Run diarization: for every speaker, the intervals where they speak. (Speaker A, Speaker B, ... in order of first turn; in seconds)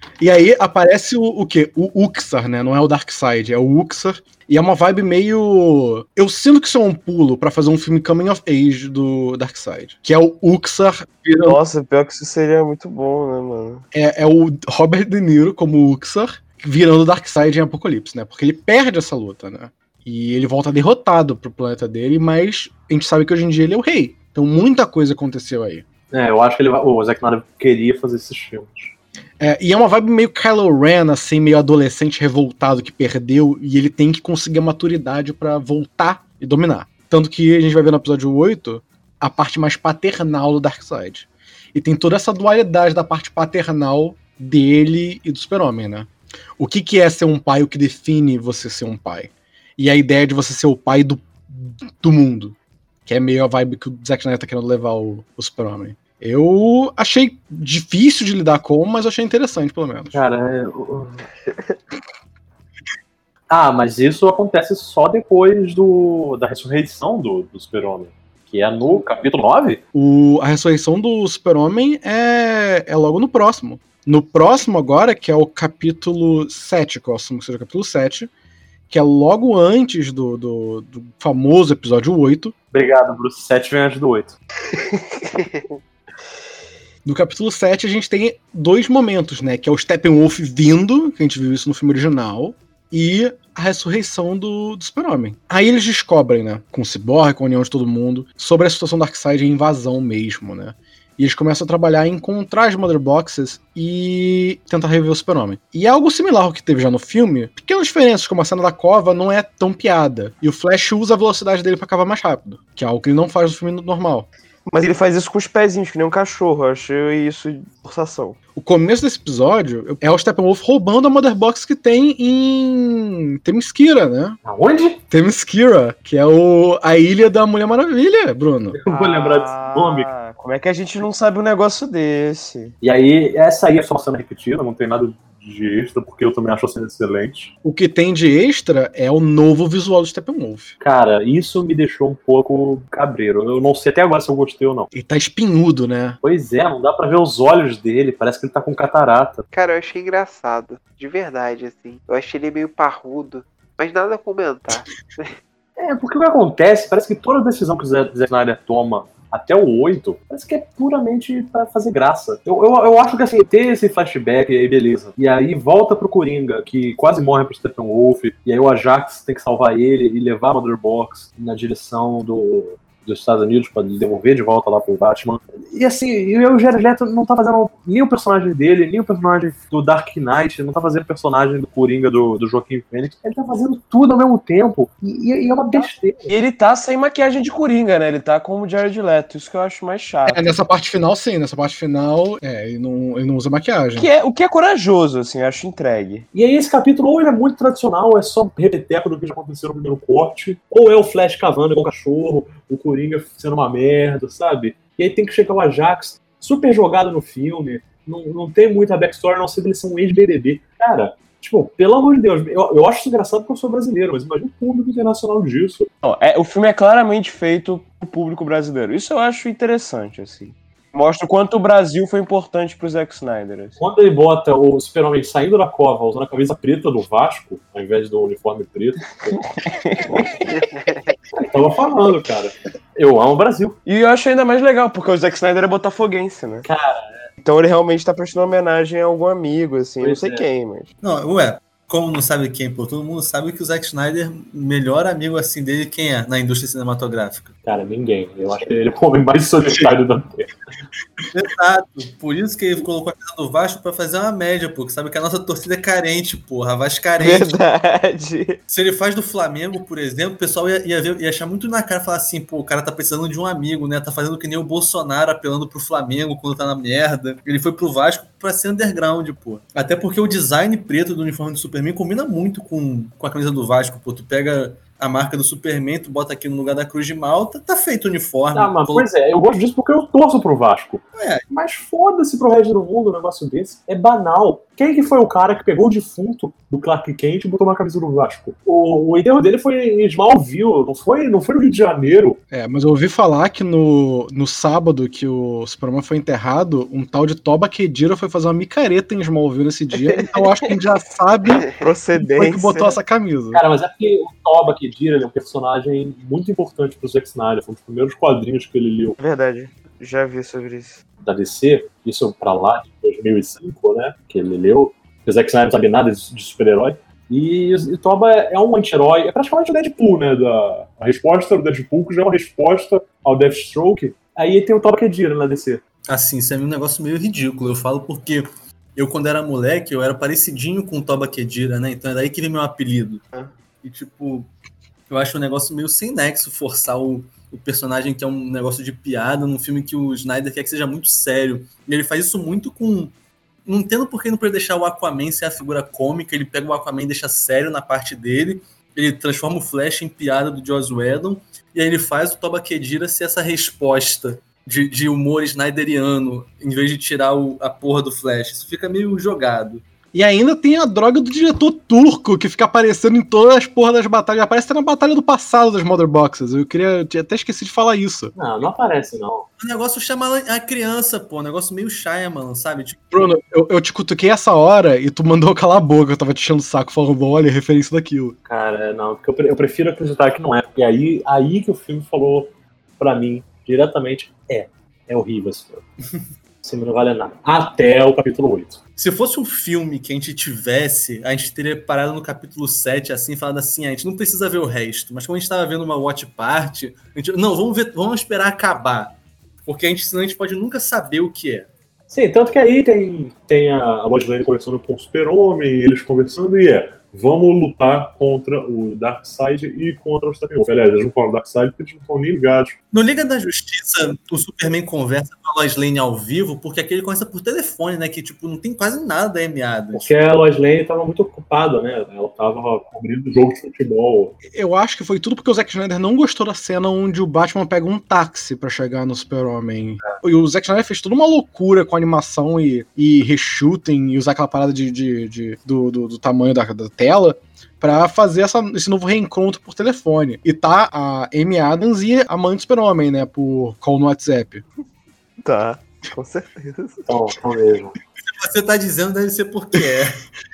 Speaker A: 0.2-11.6, 13.9-25.8, 29.4-60.2, 69.9-78.3, 78.9-82.5, 87.0-114.3, 118.5-124.4, 125.1-128.8, 137.6-140.7, 144.9-146.2, 190.3-194.1, 292.5-301.6, 302.2-303.6, 360.1-368.3, 373.1-378.4, 424.5-444.6
Speaker B: 11.4-13.8, 114.7-118.4, 128.9-132.7, 186.3-190.4, 194.0-196.2, 216.0-223.8, 229.4-230.2, 233.8-236.7, 237.4-240.9, 257.2-258.6, 300.0-300.7, 301.7-303.0, 309.2-311.0, 445.4-447.1
Speaker C: 26.1-28.9, 60.1-61.3, 63.5-69.8, 82.7-84.3, 124.4-125.0, 128.7-130.1, 132.8-137.5, 140.8-144.9, 146.2-149.4, 155.8-186.3, 196.3-215.9, 223.8-229.4, 231.3-233.8, 236.6-237.3, 240.0-240.4, 247.6-250.5, 278.5-292.4, 303.5-309.2, 311.2-325.8, 368.4-369.5, 378.4-385.8, 386.6-388.8, 402.1-412.8, 419.9-424.4, 447.1-448.0
Speaker D: 149.5-155.3, 230.5-231.1
Speaker E: 241.0-247.6, 251.3-257.5, 258.7-279.1, 281.1-281.4, 326.1-333.2, 333.8-334.5, 335.1-343.1, 343.6-359.8, 369.6-373.0, 389.0-401.7, 412.9-420.1, 448.3-450.2